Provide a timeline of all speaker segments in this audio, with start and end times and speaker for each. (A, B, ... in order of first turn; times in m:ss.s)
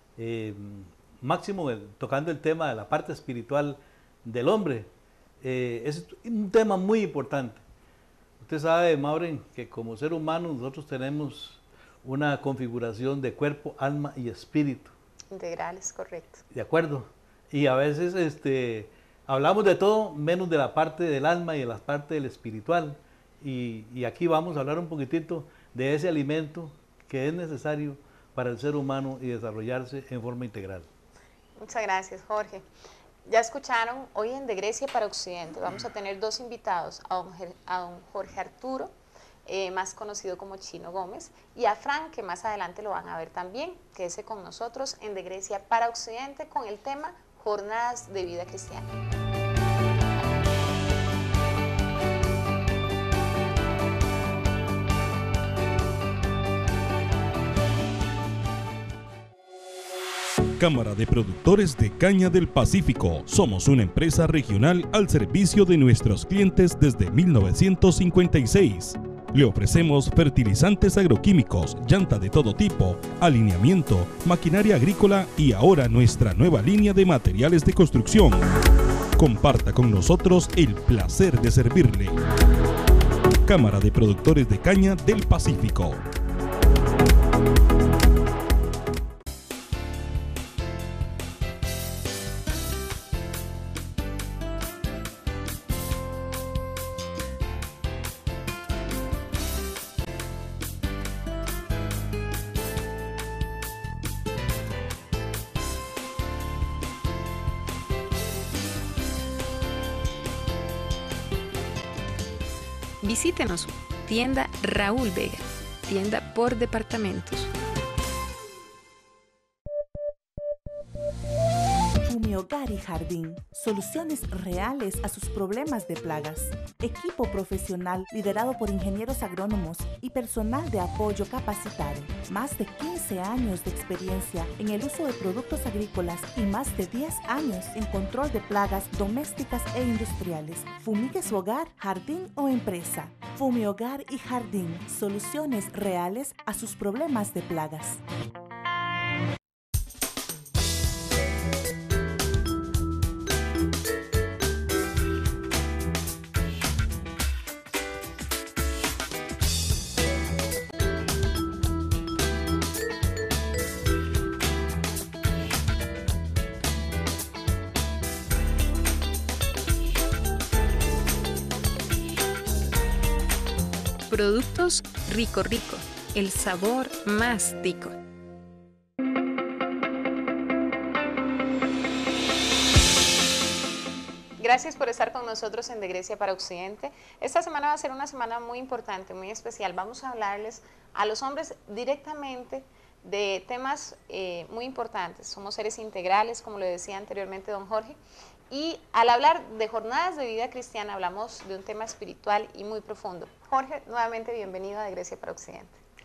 0:00.2-0:04.9 A
0:05.4-0:07.6 A
0:08.4-0:14.9 A
0:15.3-0:16.4 B
0:16.5-0:30.9 A
0:31.6-0:32.7 B
0:33.3-0:38.9 B
0:39.5-0:48.9 B
1:00.6-1:18.5 C
1:19.2-1:22.2 C
1:23.5-1:26.0 C
1:53.0-1:57.5 B
2:02.0-2:28.0 D
2:54.1-2:58.0 B
3:04.4-3:18.0 B
3:18.5-3:25.8 B